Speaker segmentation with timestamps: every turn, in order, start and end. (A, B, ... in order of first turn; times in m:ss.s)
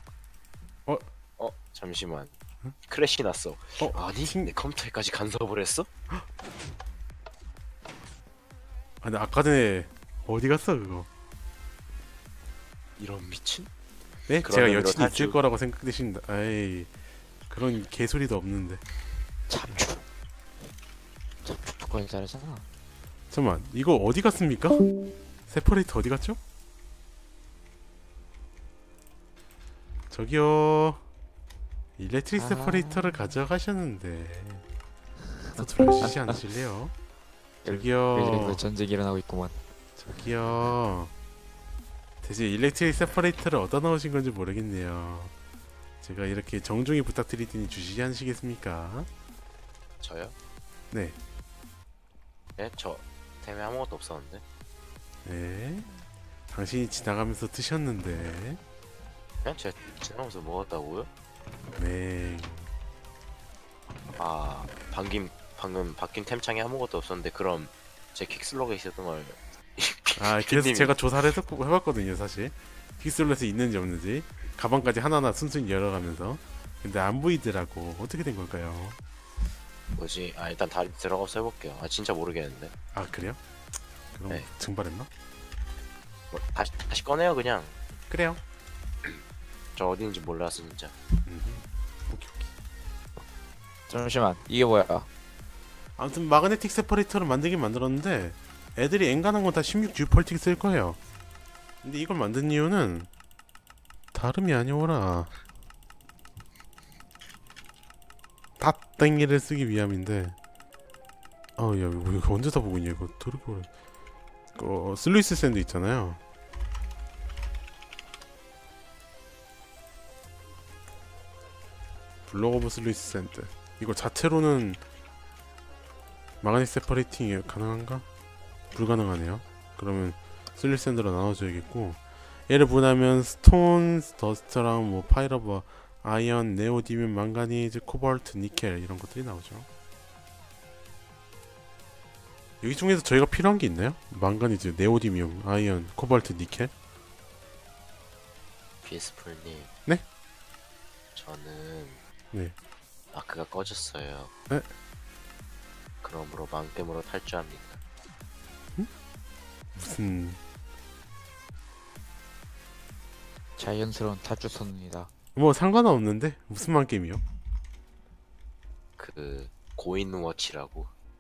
0:01.4-0:02.3 A
0:02.9-0:05.9 A
0:03.8-0:04.5 B
0:09.0-0:11.1 B
0:13.0-0:13.7 A
0:14.3-0:16.9 B
0:14.4-0:15.4 A
0:17.5-0:18.8 B
0:19.5-0:20.0 C
0:21.4-0:22.6 C
0:23.3-0:24.8 B
0:25.5-0:26.4 B
0:30.1-0:31.0 B
0:32.0-0:34.6 B
0:32.3-0:33.2 C
0:35.5-0:36.9 B
0:35.6-0:36.4 C
0:37.6-0:39.6 C
0:37.6-0:38.6 B
0:40.0-0:41.1 B
0:42.2-0:45.3 B
0:46.0-0:49.1 B
0:50.0-0:50.4 A
0:50.9-0:51.2 B
0:52.6-0:54.4 A
0:55.2-0:55.9 B
0:56.5-0:58.6 B
0:59.4-1:01.1 A
1:01.8-1:02.7 B
1:04.2-1:11.0 A
1:10.2-1:19.0 B
1:20.0-1:22.7 A
1:22.9-1:23.4 B
1:24.1-1:25.1 B
1:26.3-1:27.8 A
1:28.1-1:28.4 B
1:29.8-1:31.0 A
1:31.2-1:32.5 B
1:33.9-1:35.1 C
1:36.0-1:41.0 B
1:41.8-1:43.1 B
1:44.1-1:45.3 B
1:48.6-1:50.4 B
1:51.6-1:53.7 B
1:54.6-1:56.2 B
2:02.3-2:04.8 B
2:06.4-2:08.0 B
2:08.7-2:19.7 B
2:22.6-2:26.7 B
2:28.8-2:29.7 A
2:31.2-2:32.0 A
2:33.1-2:34.3 A
2:36.0-2:37.8 A
2:39.8-2:40.4 B
2:43.6-2:45.1 C
2:45.4-2:47.2 B
2:49.0-2:50.9 A